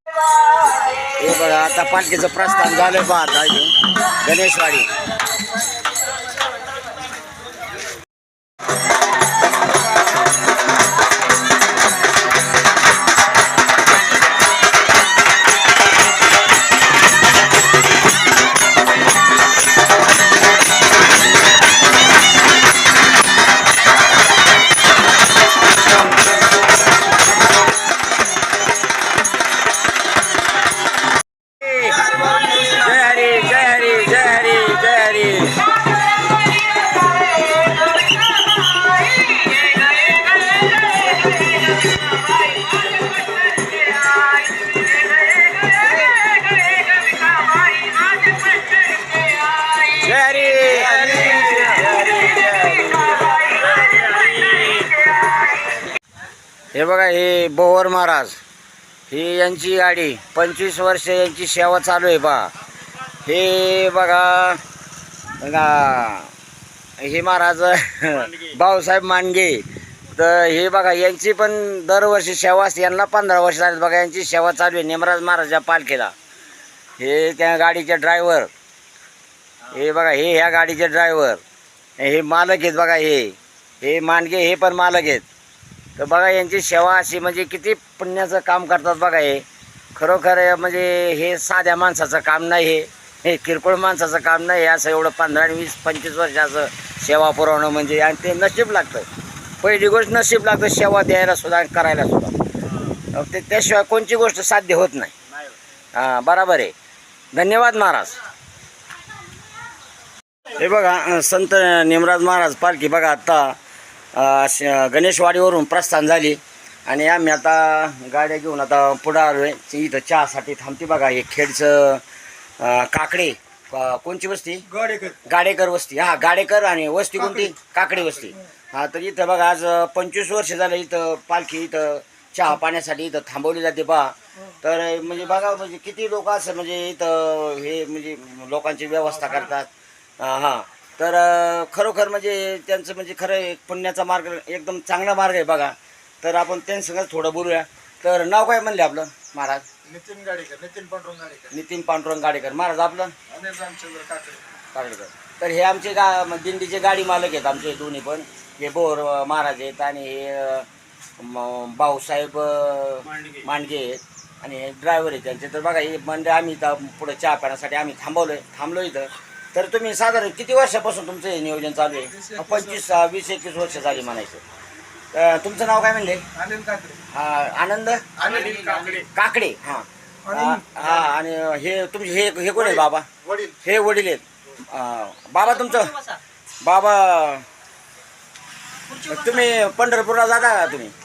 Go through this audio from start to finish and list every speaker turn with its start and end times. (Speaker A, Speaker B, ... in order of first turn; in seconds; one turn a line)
Speaker A: 1.1-4.9
Speaker A: 31.6-35.6
Speaker A: 49.7-55.0
Speaker A: 56.7-58.4
Speaker A: 59.1-62.5
Speaker A: 63.2-64.6
Speaker A: 65.4-66.3
Speaker A: 67.0-76.1
Speaker A: 77.0-78.5
Speaker A: 79.7-81.4
Speaker A: 82.0-85.2
Speaker A: 86.0-99.1
Speaker A: 99.6-102.4
Speaker A: 103.1-105.1
Speaker A: 105.9-106.7
Speaker A: 107.3-108.2
Speaker A: 110.5-113.6
Speaker A: 114.1-122.0
Speaker A: 122.6-124.7
Speaker B: 124.8-125.1
Speaker A: 125.2-149.7
Speaker B: 149.9-151.4
Speaker A: 151.5-153.1
Speaker B: 153.3-154.4
Speaker A: 154.7-160.7
Speaker A: 161.2-174.4
Speaker A: 175.1-176.2
Speaker B: 176.4-176.9
Speaker A: 177.1-183.1
Speaker B: 178.2-179.0
Speaker B: 183.3-183.5
Speaker A: 183.6-187.4
Speaker A: 188.9-190.9